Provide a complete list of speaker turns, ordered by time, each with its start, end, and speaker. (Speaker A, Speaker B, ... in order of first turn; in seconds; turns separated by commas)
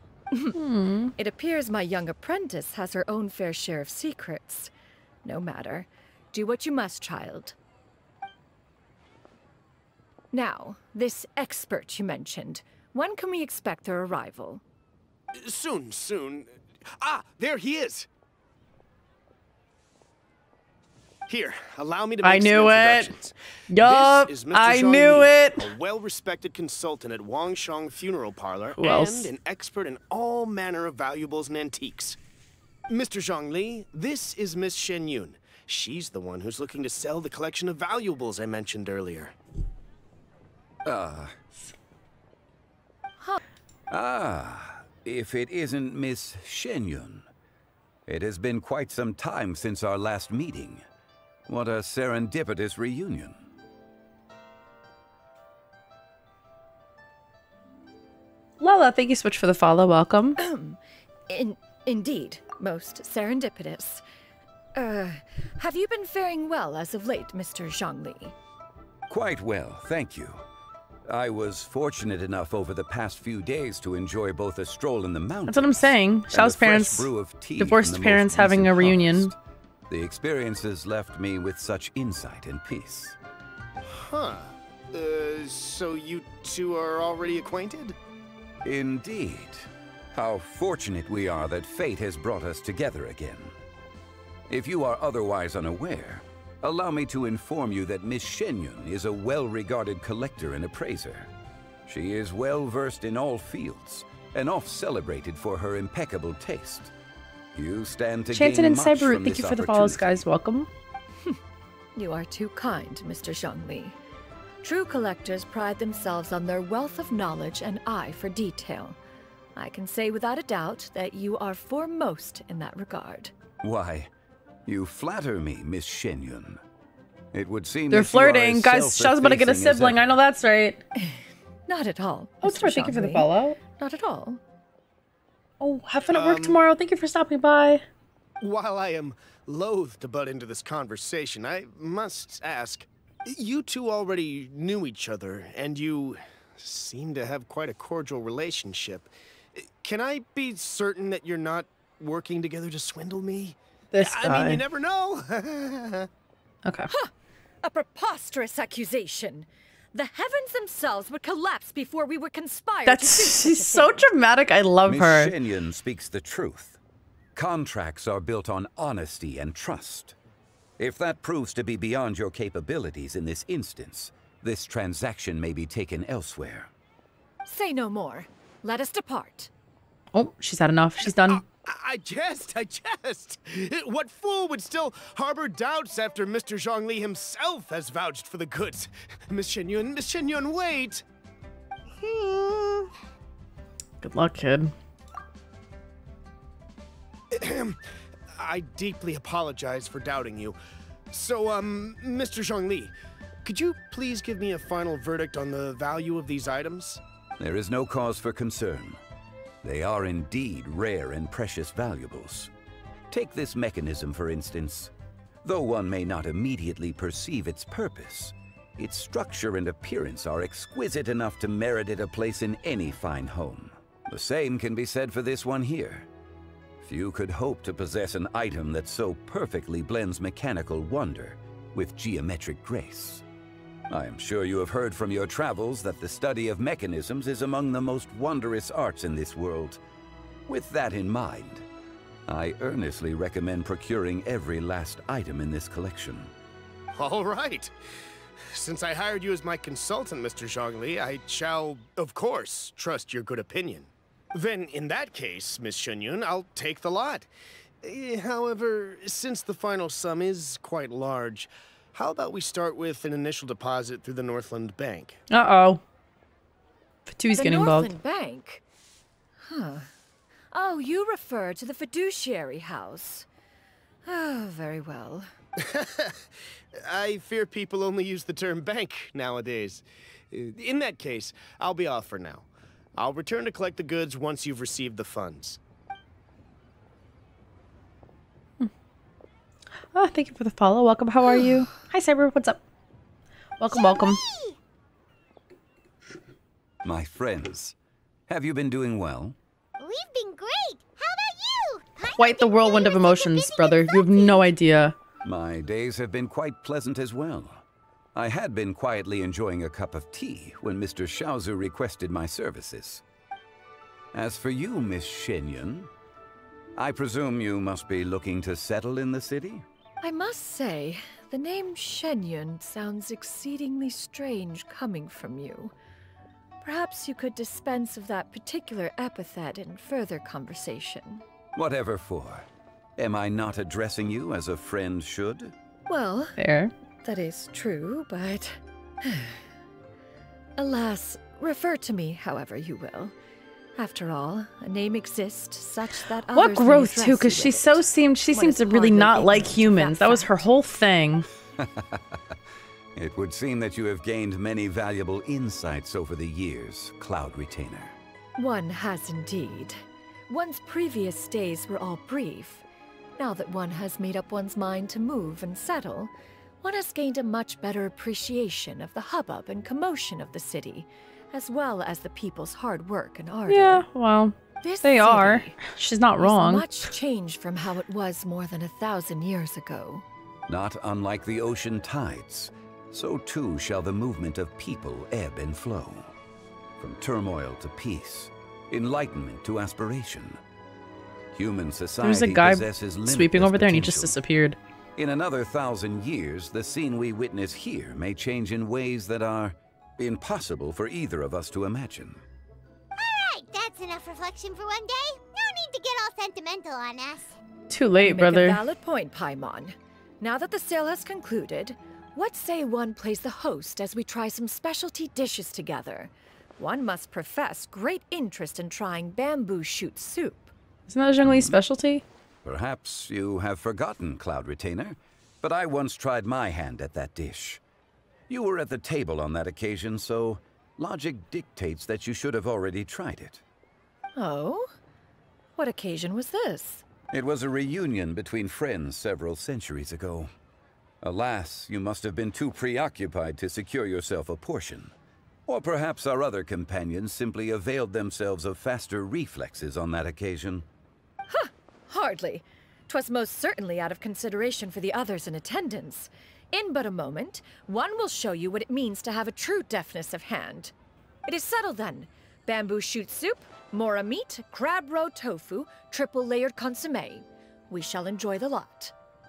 Speaker A: 0.5-1.1, Speaker B: 1.1-4.7, Speaker B: 5.2-7.5, Speaker B: 10.3-14.6, Speaker C: 15.3-18.1, Speaker C: 21.3-32.2, Speaker A: 22.2-23.1, Speaker A: 23.7-25.7, Speaker A: 28.8-29.3, Speaker C: 32.9-39.3, Speaker D: 40.8-41.3, Speaker D: 43.9-47.3, Speaker D: 48.1-50.8, Speaker D: 51.5-53.4, Speaker A: 58.6-60.4, Speaker B: 60.4-64.0, Speaker B: 64.7-68.3, Speaker D: 69.1-70.4, Speaker D: 71.1-79.3, Speaker A: 75.5-79.3, Speaker D: 79.9-83.1, Speaker C: 83.8-88.0, Speaker D: 88.6-93.5, Speaker D: 94.5-101.3, Speaker D: 101.9-106.9, Speaker D: 107.5-110.2, Speaker A: 108.3-110.7, Speaker B: 111.9-114.0, Speaker B: 114.6-119.0, Speaker B: 119.5-123.3, Speaker D: 123.6-124.1, Speaker D: 124.7-126.6, Speaker D: 127.3-130.1, Speaker A: 127.9-130.8, Speaker B: 131.0-134.4, Speaker A: 132.4-133.6, Speaker A: 135.6-137.8, Speaker C: 136.1-136.6, Speaker C: 138.4-156.1, Speaker A: 153.9-154.6, Speaker A: 156.7-156.9, Speaker B: 157.6-164.1, Speaker A: 162.8-165.3, Speaker D: 164.8-166.8, Speaker D: 167.3-170.1, Speaker D: 170.8-176.7, Speaker B: 177.4-179.5, Speaker A: 180.1-181.4, Speaker C: 181.0-191.0, Speaker E: 192.0-192.9, Speaker A: 194.0-194.7, Speaker C: 197.3-197.8, Speaker C: 198.3-200.6, Speaker C: 201.1-207.0, Speaker D: 207.4-209.0, Speaker D: 209.6-212.5, Speaker D: 213.1-214.9, Speaker D: 215.4-226.1, Speaker D: 226.8-233.2, Speaker D: 233.9-239.8, Speaker D: 240.5-241.6, Speaker D: 242.3-246.3, Speaker C: 246.9-247.7, Speaker C: 248.5-257.3, Speaker C: 257.8-265.2, Speaker A: 265.3-265.8, Speaker A: 267.1-267.9, Speaker B: 267.3-268.6, Speaker B: 269.4-269.9, Speaker B: 270.5-273.3, Speaker B: 274.0-275.3, Speaker C: 275.6-285.6, Speaker A: 289.9-292.6, Speaker B: 291.2-291.6, Speaker A: 293.6-294.2, Speaker E: 293.7-294.6, Speaker D: 296.8-297.7, Speaker D: 298.3-299.4, Speaker E: 299.8-304.5, Speaker A: 302.2-304.9, Speaker D: 305.2-307.6, Speaker D: 308.1-313.0, Speaker D: 314.1-315.9, Speaker D: 316.8-319.6, Speaker B: 320.0-325.7, Speaker B: 326.6-331.2, Speaker D: 331.6-332.4, Speaker D: 333.0-335.5, Speaker B: 335.9-336.4, Speaker A: 336.4-336.7, Speaker B: 337.0-339.5, Speaker B: 340.6-343.1, Speaker B: 343.8-350.4, Speaker A: 346.3-351.2, Speaker D: 351.6-352.0, Speaker D: 353.0-357.9, Speaker B: 358.4-362.6, Speaker B: 363.2-373.9, Speaker A: 373.5-376.9, Speaker B: 374.6-375.6, Speaker B: 376.2-380.1, Speaker D: 380.5-386.1, Speaker D: 386.8-390.4, Speaker D: 391.3-394.2, Speaker A: 392.0-394.6, Speaker D: 395.0-402.2, Speaker E: 403.0-407.4, Speaker A: 407.7-408.6, Speaker B: 408.0-420.5, Speaker A: 420.9-422.0, Speaker D: 421.2-421.6, Speaker D: 422.4-427.6, Speaker D: 428.3-433.4, Speaker B: 434.1-434.7, Speaker B: 435.6-436.9, Speaker D: 437.1-440.3, Speaker D: 441.0-444.9, Speaker D: 445.5-450.6, Speaker B: 451.3-460.7, Speaker B: 461.3-468.9